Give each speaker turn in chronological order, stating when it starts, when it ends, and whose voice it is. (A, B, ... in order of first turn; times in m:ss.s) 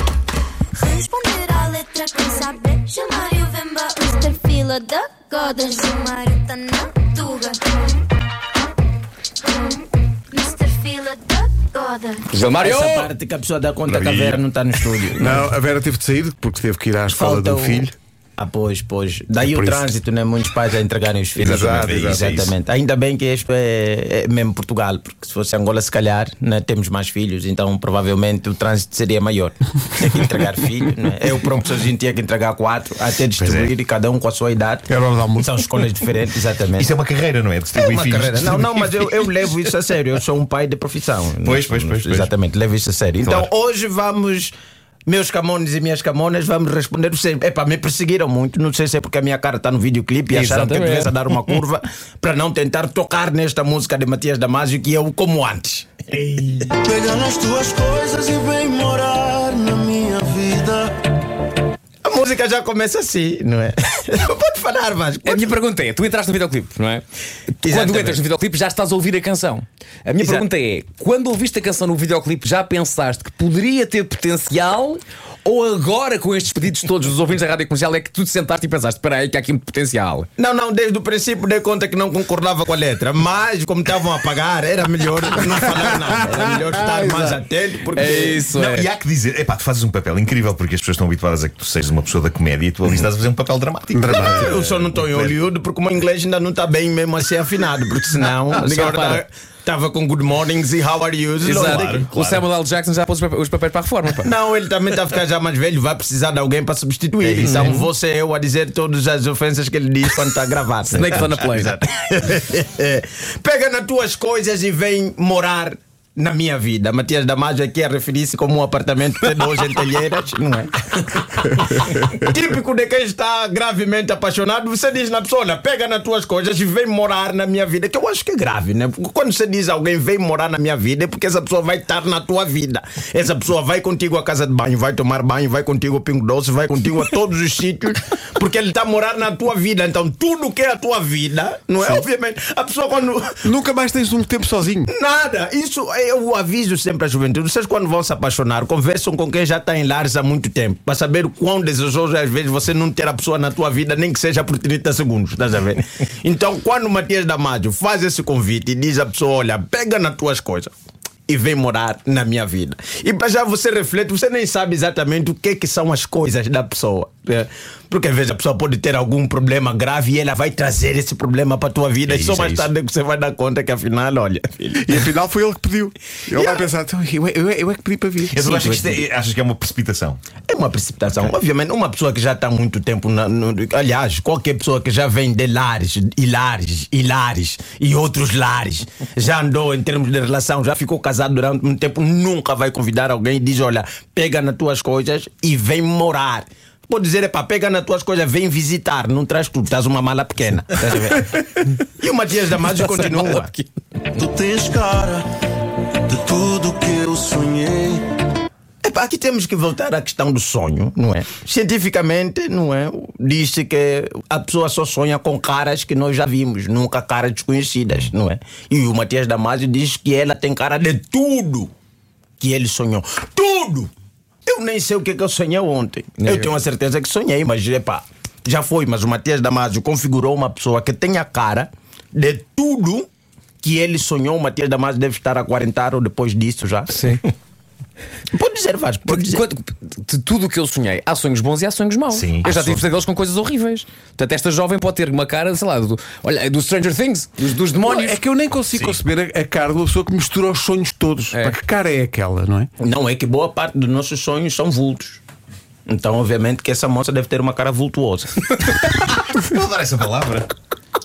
0:00.7-0:07.7 A
0:09.5-0:09.8 A
0:10.3-0:12.2 A
0:12.3-0:13.1 B
0:12.5-0:15.4 C
0:13.9-0:14.4 D
0:15.2-0:17.9 D
0:17.1-0:36.9 C
0:19.4-0:19.9 D
0:21.4-0:22.2 D
0:21.4-0:22.5 E
0:33.4-0:33.7 E
0:34.9-0:35.7 D
0:36.8-0:39.1 E
0:37.8-0:44.5 C
0:41.4-0:42.3 E
0:45.1-0:56.7 C
0:50.3-0:51.6 B
0:56.7-1:01.0 F
1:02.0-1:05.5 C
1:05.2-1:07.0 B
1:07.6-1:08.2 C
1:07.6-1:20.3 B
1:10.2-1:10.4 C
1:20.4-1:28.4 C
1:26.8-1:27.4 D
1:27.9-1:28.9 B
1:28.5-1:35.4 E
1:33.9-1:34.5 D
1:34.1-1:42.1 C
1:38.6-1:39.2 B
1:41.4-1:44.3 B
1:41.5-1:42.4 E
1:44.2-2:23.4 C
1:47.2-1:47.8 E
1:47.4-1:47.8 B
1:50.9-1:51.8 B
2:23.4-2:24.9 D
2:24.9-2:40.7 C
2:41.3-2:55.0 C
2:52.0-2:52.7 E
2:54.8-2:58.6 D
2:56.3-2:56.7 C
2:58.3-3:00.2 E
2:58.4-2:59.0 C
3:00.5-3:23.5 C
3:22.6-3:23.7 B
3:24.2-3:25.3 F
3:26.0-3:28.1 F
3:28.8-3:41.7 C
3:42.4-3:43.9 C
3:44.4-3:53.1 C
3:46.2-3:46.5 B
3:53.6-3:57.2 C
3:56.9-3:57.2 B
3:58.3-3:59.4 C
3:59.1-4:08.2 B
4:02.1-4:02.8 E
4:07.8-4:12.7 D
4:12.8-4:15.2 C
4:15.9-4:18.7 C
4:19.1-4:20.5 E